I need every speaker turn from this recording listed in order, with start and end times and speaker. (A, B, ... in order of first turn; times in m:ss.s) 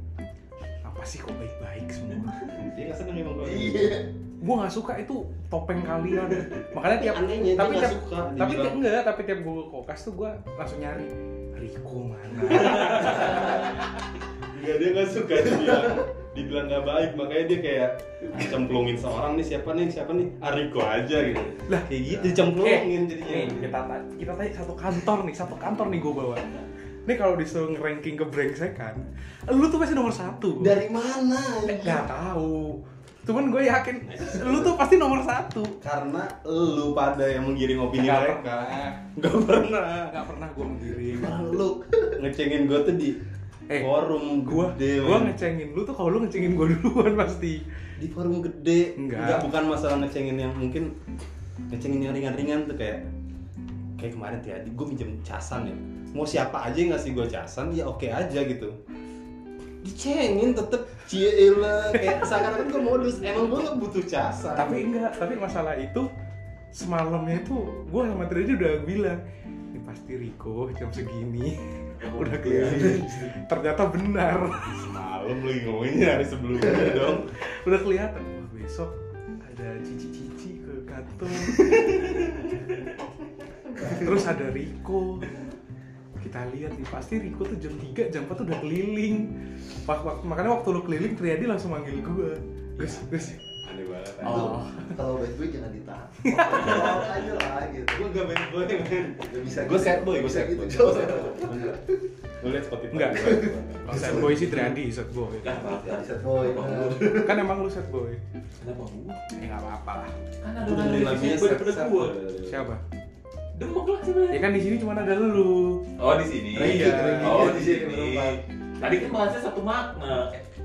0:00.8-0:02.4 A
0:02.5-0:04.0 B
0:03.4-0:04.1 C
0:04.4-0:13.5 A
0:06.9-0:08.8 B
0:12.7-0:13.5 B
0:12.9-0:13.4 D
0:14.5-0:23.8 B
0:21.7-0:26.4 A
0:27.0-0:30.8 A
0:30.6-0:32.1 B
0:31.6-0:35.8 A
0:34.0-0:34.8 B
0:35.8-0:40.1 B
0:37.9-0:39.0 A
0:40.1-0:41.3 A
0:41.1-0:42.2 C
0:41.1-0:43.2 B
0:43.7-0:47.6 A
0:43.8-0:45.4 B
0:48.0-0:50.9 B
0:49.0-0:49.5 A
0:51.7-0:53.0 B
0:54.0-0:58.8 B
0:59.8-1:04.9 B
1:01.1-1:02.7 C
1:04.6-1:06.1 A
1:06.7-1:09.2 A
1:09.7-1:14.8 A
1:12.0-1:13.0 D
1:12.4-1:13.3 B
1:14.7-1:17.3 B
1:17.4-1:22.0 A
1:23.7-1:24.2 C
1:23.8-1:25.3 A
1:26.2-1:29.3 A
1:29.8-1:33.4 A
1:32.8-1:34.6 B
1:34.2-1:38.1 C
1:34.3-1:35.0 A
1:36.2-1:37.0 A
1:36.5-1:37.0 D
1:36.6-1:37.2 B
1:37.9-1:41.8 B
1:39.2-1:42.0 C
1:42.4-1:44.8 B
1:42.9-1:45.6 A
1:43.2-1:44.7 C
1:45.4-1:47.1 D
1:45.6-1:47.5 C
1:47.1-1:48.2 A
1:48.6-1:49.2 D
1:49.3-1:50.1 A
1:50.4-1:52.2 D
1:50.6-1:52.7 B
1:51.4-1:51.8 A
1:52.5-1:52.8 A
1:53.5-1:54.4 D
1:54.3-1:55.8 A
1:56.0-2:00.4 D
1:56.5-1:57.6 A
1:56.5-1:58.4 C